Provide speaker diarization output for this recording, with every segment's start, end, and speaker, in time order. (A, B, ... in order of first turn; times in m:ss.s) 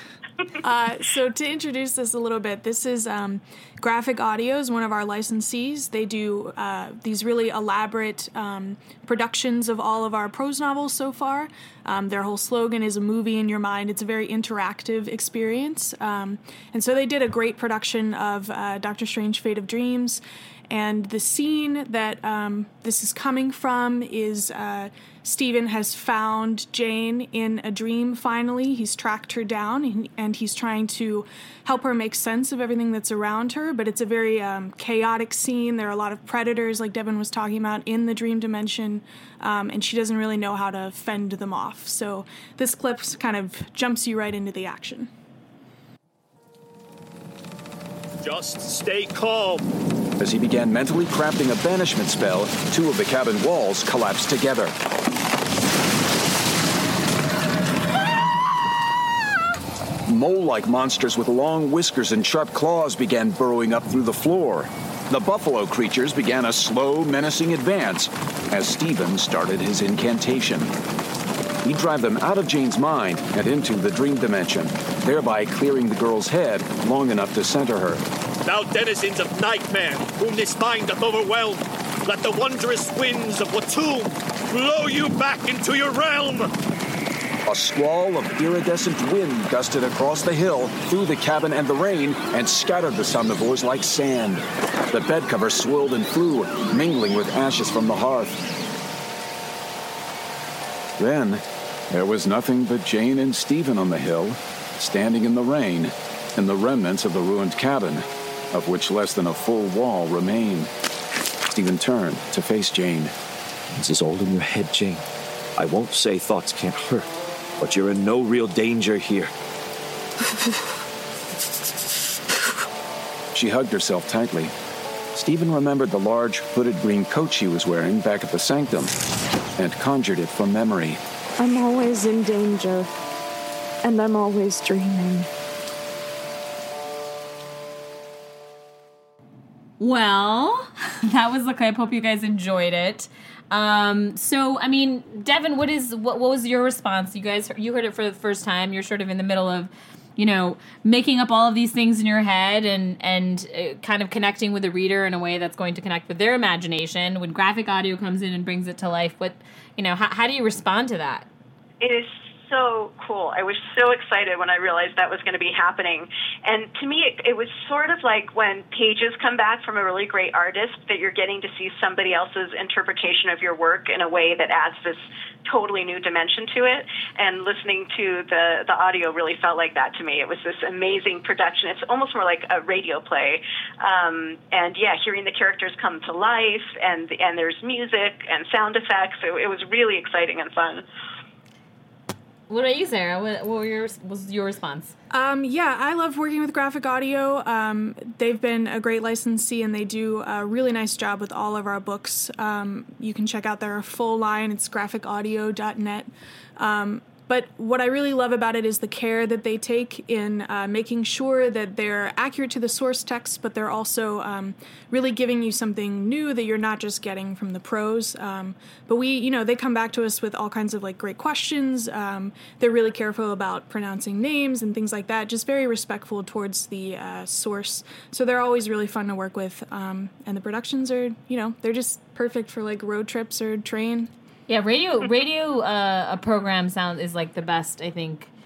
0:00.6-0:45.1 A
0:48.2-0:49.7 B
0:50.2-0:54.7 C
1:00.1-1:10.7 C
1:11.6-1:18.0 C
1:18.4-1:26.5 B
1:27.5-1:38.4 C
1:41.0-1:50.7 C
1:51.5-1:53.1 C
1:53.8-1:55.0 D
1:55.6-1:57.1 D
1:57.6-1:59.3 D
2:03.3-2:04.5 C
2:05.1-2:08.9 C
2:09.6-2:11.0 C
2:11.4-2:12.9 E
2:13.8-2:15.3 E
2:19.8-2:41.3 F
2:41.8-3:10.8 G
3:12.5-3:14.9 F
3:15.1-3:54.1 A
3:54.5-3:58.3 F